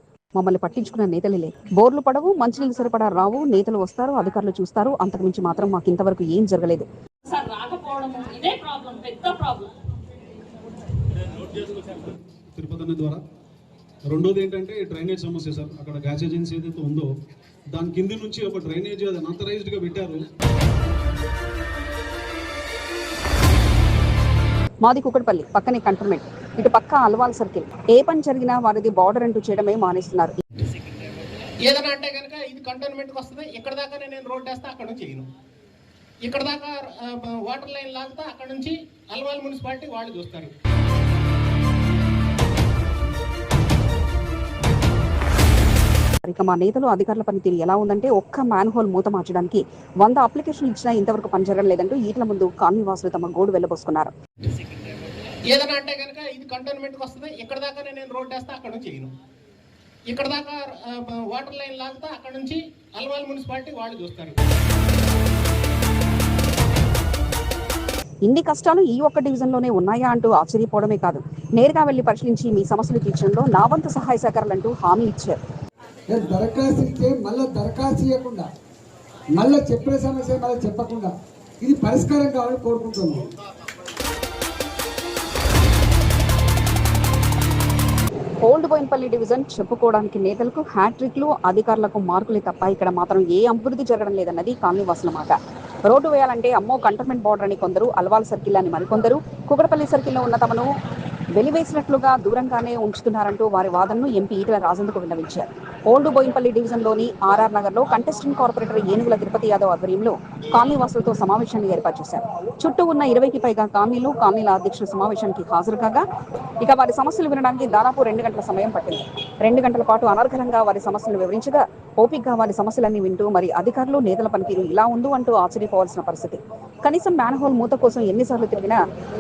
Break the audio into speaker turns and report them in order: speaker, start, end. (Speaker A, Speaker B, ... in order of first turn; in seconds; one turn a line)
Speaker A: 0.3-6.9
Speaker B: 7.3-9.7
Speaker C: 11.8-13.2
Speaker C: 14.1-17.1
Speaker C: 17.7-20.3
Speaker A: 24.8-30.4
Speaker D: 31.7-35.3
Speaker D: 36.2-40.5
Speaker A: 46.2-54.1
Speaker D: 55.5-59.1
Speaker D: 60.1-64.4
Speaker A: 68.2-75.4
Speaker E: 76.1-78.5
Speaker E: 79.4-83.3
Speaker A: 88.4-100.7
Speaker A: 101.3-116.1
Speaker A: 116.6-128.8